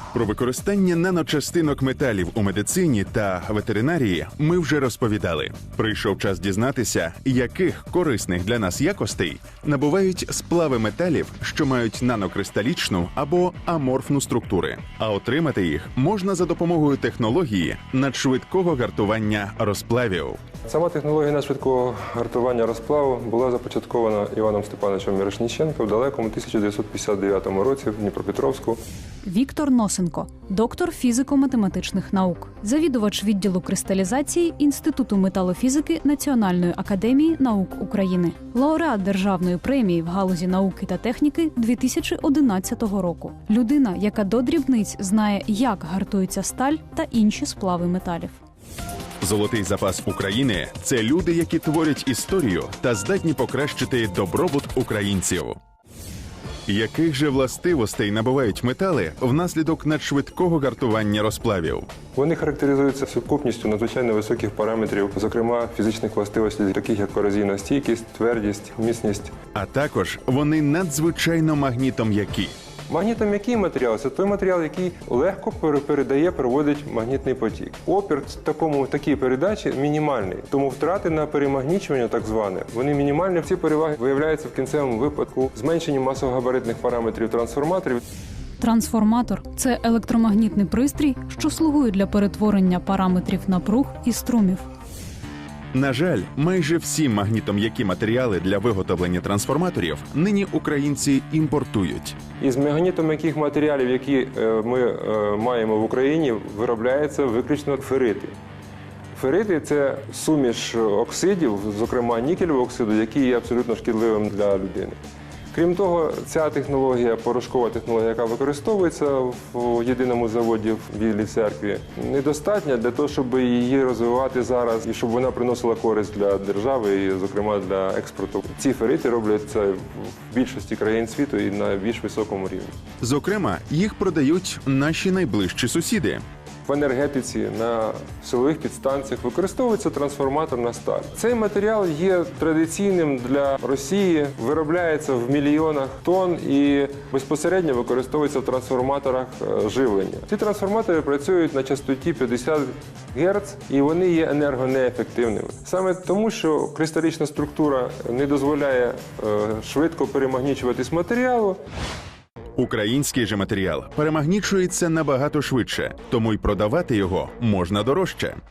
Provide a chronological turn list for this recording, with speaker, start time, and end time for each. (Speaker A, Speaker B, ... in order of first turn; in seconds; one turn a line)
Speaker A: 0.1-20.4
Speaker B: 20.7-28.8
Speaker C: 29.2-48.4
Speaker A: 49.2-55.6
Speaker A: 56.7-61.9
Speaker B: 62.1-69.3
Speaker A: 69.5-72.5
Speaker B: 72.9-88.0
Speaker C: 88.6-94.7
Speaker A: 95.7-102.2
Speaker B: 102.4-108.3
Speaker B: 109.1-115.0
Speaker B: 115.5-132.7
Speaker A: 133.0-136.2
Speaker B: 136.7-161.6
Speaker A: 162.6-168.4